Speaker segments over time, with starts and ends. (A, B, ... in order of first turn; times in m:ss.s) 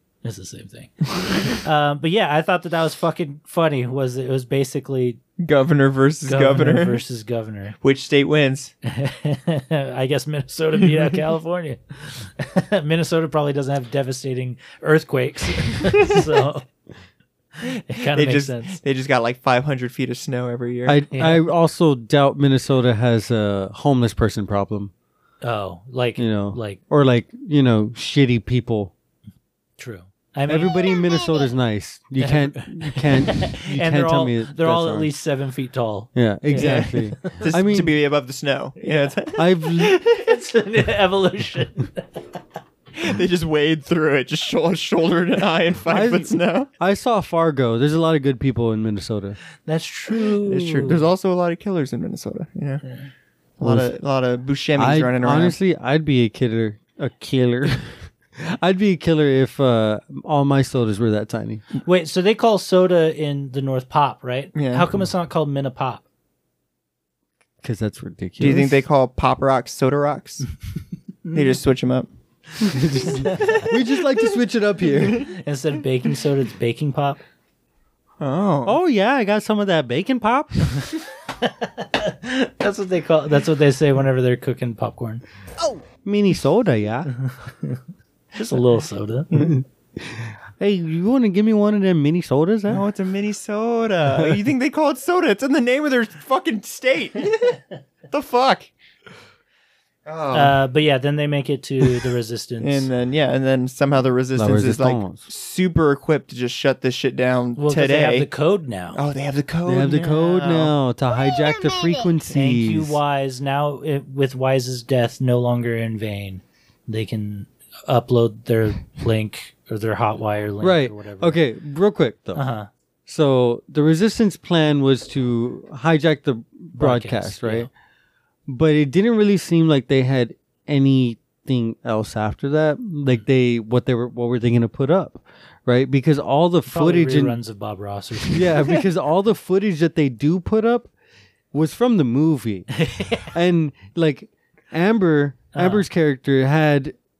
0:00.2-0:05.2 A
0:05.4-0:07.0 B
0:06.3-0:07.8 A
0:07.8-0:08.7 B
0:08.8-0:16.6 A
0:17.6-0:18.8 A
0:18.1-0:21.0 B
0:20.8-0:24.9 C
0:21.1-0:21.4 A
0:25.4-0:26.8 A
0:26.2-0:28.9 C
0:29.8-0:30.8 A
0:30.5-0:35.1 C
0:32.2-0:37.5 A
0:36.1-0:38.0 C
0:36.5-0:40.3 B
0:38.8-0:39.1 A
0:39.4-0:40.0 C
0:40.2-0:42.1 A
0:42.9-0:46.7 B
0:45.9-0:49.4 C
0:49.6-0:51.0 A
0:50.4-0:52.8 B
0:53.6-0:55.6 B
0:53.6-0:53.9 C
0:54.8-1:01.6 C
1:01.8-1:06.0 A
1:04.5-1:04.9 B
1:07.6-1:08.8 C
1:08.4-1:10.4 B
1:11.2-1:11.5 A
1:11.3-1:12.1 B
1:12.6-1:15.3 C
1:13.0-1:13.7 A
1:15.2-1:17.2 A
1:18.2-1:18.8 B
1:18.6-1:20.7 C
1:20.8-1:25.2 A
1:25.6-1:27.1 C
1:27.2-1:27.8 A
1:28.3-1:29.3 A
1:29.3-1:32.8 C
1:32.7-1:38.7 B
1:34.1-1:34.4 C
1:40.0-1:40.6 B
1:40.3-1:42.9 A
1:42.6-1:48.3 B
1:44.4-1:45.2 C
1:47.6-1:49.0 A
1:48.9-1:50.7 B
1:49.6-1:53.0 C
1:52.3-2:01.4 A
2:00.6-2:02.4 C
2:02.3-2:02.7 A
2:03.0-2:07.7 C
2:06.7-2:07.7 A
2:08.5-2:17.4 C
2:16.7-2:18.8 A
2:18.3-2:20.9 C
2:21.5-2:27.0 C
2:22.8-2:23.3 A
2:25.5-2:25.8 A